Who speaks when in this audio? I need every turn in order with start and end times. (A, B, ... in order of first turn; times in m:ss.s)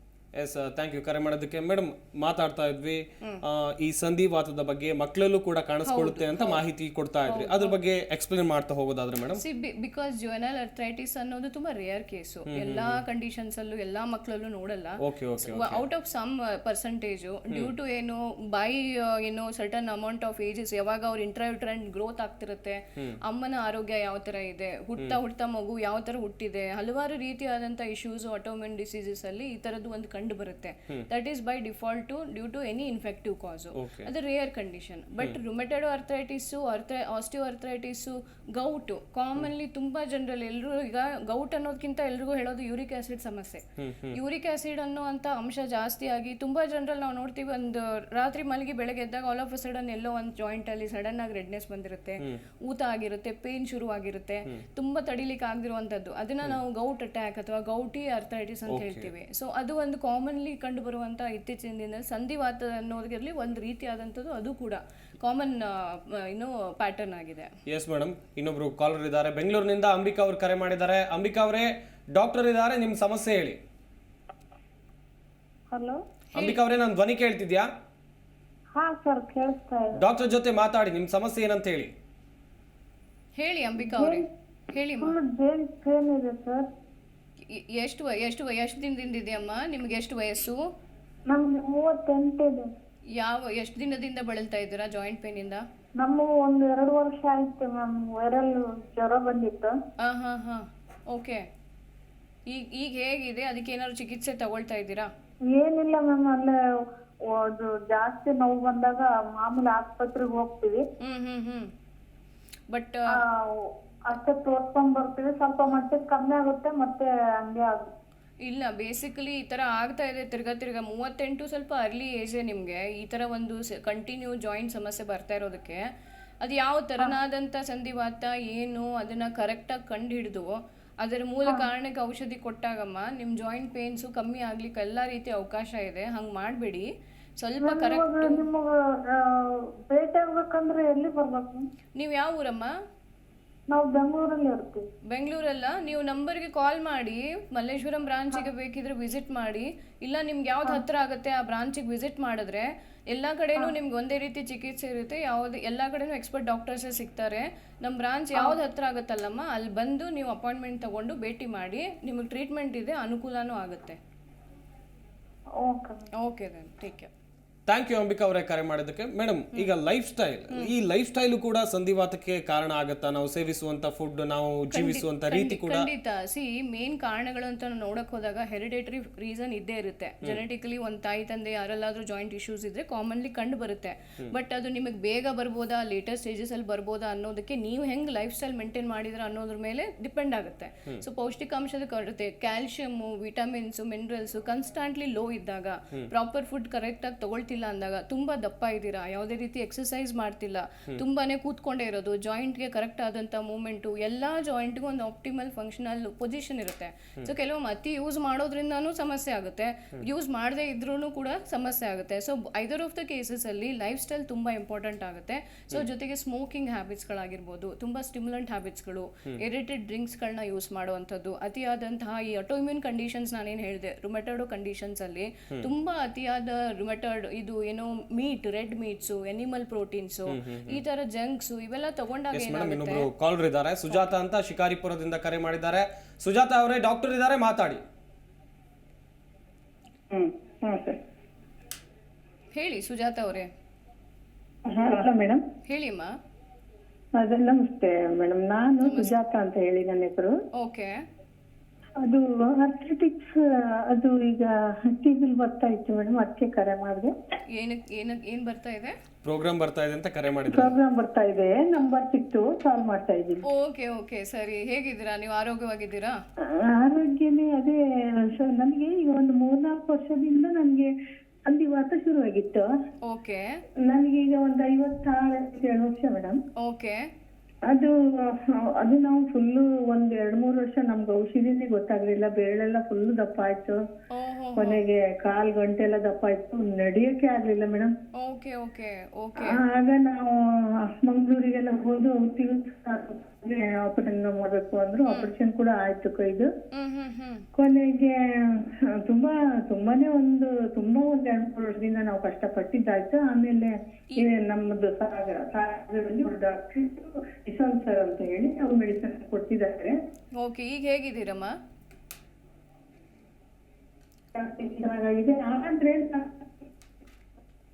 0:00.4-0:09.4 A
0:05.9-0:06.6 B
0:07.3-0:07.8 B
0:09.4-1:07.5 B
0:12.5-0:13.0 A
0:15.0-0:15.8 A
0:33.8-0:34.1 A
0:43.8-0:44.2 A
0:58.7-0:59.1 A
1:07.7-1:13.6 A
1:15.7-1:16.0 C
1:16.3-1:17.7 A
1:18.8-1:20.0 C
1:19.9-1:21.9 A
1:23.4-1:25.1 B
1:23.8-1:24.2 C
1:25.0-1:26.7 C
1:27.5-1:30.6 B
1:31.3-1:32.7 C
1:33.1-1:35.6 B
1:36.0-1:39.8 C
1:40.0-1:41.4 B
1:42.5-1:45.1 B
1:45.5-1:46.6 C
1:47.3-1:50.8 C
1:51.0-1:51.7 B
1:52.7-1:53.1 B
1:53.1-1:57.8 C
1:58.4-2:05.8 B
2:06.4-2:16.9 B
2:17.4-2:18.5 B
2:17.6-2:21.6 C
2:22.0-2:22.7 B
2:23.7-2:24.8 C
2:25.1-2:44.0 B
2:45.6-2:46.0 C
2:46.2-2:47.1 B
2:47.7-2:55.9 A
2:54.7-3:53.1 B
3:50.3-3:50.8 A
3:52.3-3:57.8 A
4:00.1-4:01.0 D
4:02.5-4:03.5 B
4:04.7-4:05.4 D
4:05.7-4:06.1 B
4:07.2-4:10.4 D
4:08.8-4:09.1 B
4:10.6-4:10.9 B
4:12.0-4:17.1 D
4:17.5-4:18.9 B
4:19.2-4:20.7 A
4:20.5-4:23.4 D
4:23.5-4:26.2 B
4:26.6-4:27.8 D
4:28.3-4:30.9 D
4:31.5-4:32.7 D
4:33.1-4:33.4 B
4:33.8-4:36.4 D
4:36.6-4:37.0 B
4:37.7-4:43.8 D
4:44.1-4:44.8 B
4:44.6-4:47.9 D
4:48.2-4:49.6 B
4:49.4-4:56.5 D
4:55.0-4:55.3 B
4:56.7-4:57.4 B
4:57.5-5:10.0 D
5:10.4-5:11.5 B
5:14.3-5:16.4 D